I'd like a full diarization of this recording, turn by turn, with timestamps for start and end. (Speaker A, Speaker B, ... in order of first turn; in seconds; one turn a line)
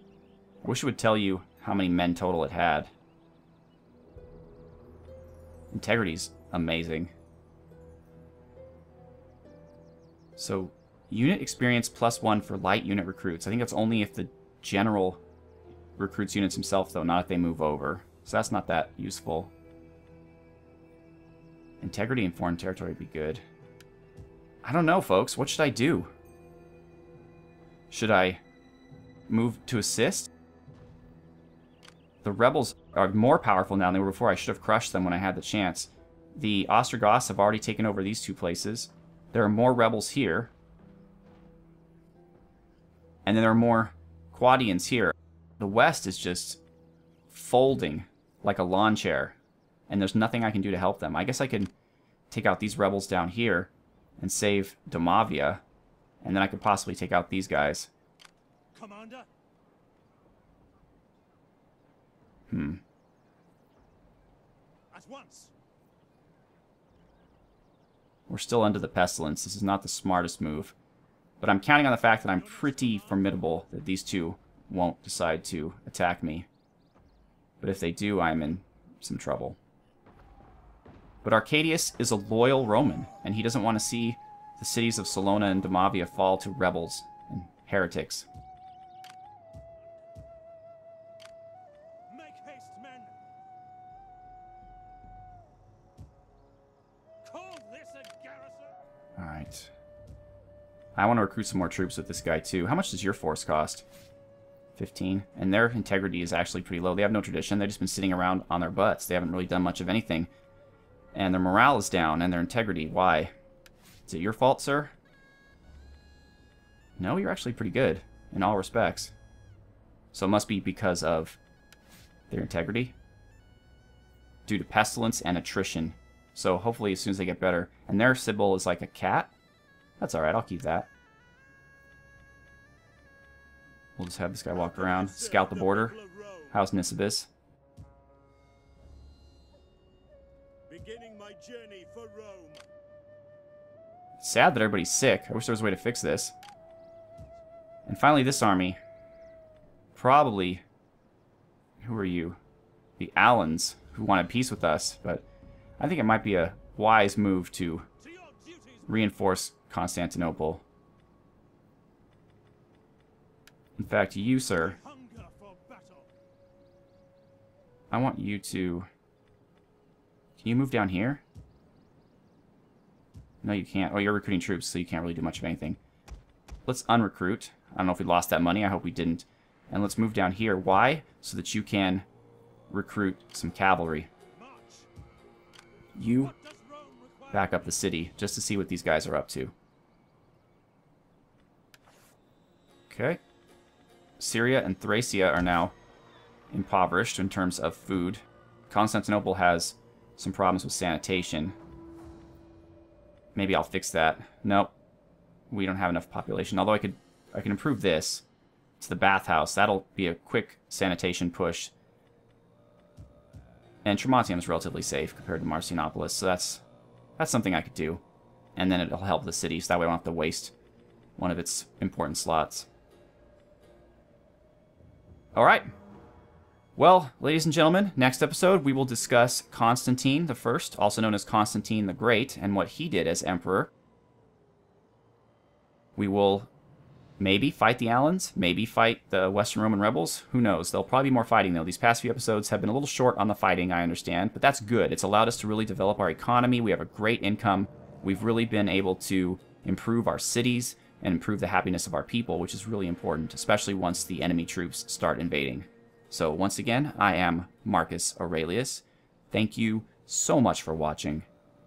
Speaker A: 0.6-2.9
Speaker A: 5.7-7.1
Speaker A: 10.4-15.2
Speaker A: 15.9-19.5
Speaker A: 21.8-23.4
Speaker A: 24.6-26.1
Speaker A: 27.9-28.4
Speaker A: 29.3-30.3
Speaker A: 32.2-40.5
Speaker A: 43.2-46.6
Speaker A: 47.3-49.4
Speaker A: 49.9-51.7
Speaker A: 52.3-55.6
Speaker A: 56.2-57.9
Speaker B: 58.7-59.3
Speaker A: 62.5-62.8
Speaker B: 64.9-65.5
Speaker A: 68.3-70.7
Speaker A: 71.4-76.5
Speaker B: 72.3-73.4
Speaker A: 77.6-79.6
Speaker A: 81.2-88.3
Speaker B: 92.1-93.1
Speaker B: 97.2-98.7
Speaker A: 99.2-99.7
Speaker A: 101.0-103.8
Speaker A: 104.8-110.3
Speaker A: 111.1-113.3
Speaker A: 114.1-114.9
Speaker A: 117.0-119.1
Speaker A: 120.1-121.4
Speaker A: 122.3-122.9
Speaker A: 124.5-129.3
Speaker A: 130.0-130.9
Speaker A: 134.0-136.0
Speaker B: 134.5-136.5
Speaker A: 136.5-137.3
Speaker B: 140.7-142.6
Speaker A: 144.2-146.3
Speaker A: 147.8-148.8
Speaker A: 149.9-150.6
Speaker A: 151.8-152.4
Speaker A: 153.0-155.2
Speaker A: 155.8-157.9
Speaker B: 158.0-158.9
Speaker A: 158.9-160.6
Speaker A: 163.8-164.8
Speaker B: 164.5-166.1
Speaker A: 167.9-168.9
Speaker A: 170.4-171.2
Speaker A: 173.4-175.8
Speaker A: 176.7-182.1
Speaker A: 182.7-184.1
Speaker B: 184.3-184.9
Speaker A: 185.9-186.3
Speaker B: 186.1-187.8
Speaker A: 187.3-189.5
Speaker A: 192.9-193.2
Speaker A: 194.2-195.7
Speaker A: 196.5-201.6
Speaker A: 203.3-204.7
Speaker A: 205.5-208.2
Speaker A: 208.8-211.7
Speaker A: 213.8-216.6
Speaker A: 217.2-218.0
Speaker A: 218.6-220.5
Speaker A: 221.2-222.7
Speaker A: 225.3-225.7
Speaker A: 226.8-233.7
Speaker A: 235.9-236.5
Speaker A: 237.2-261.2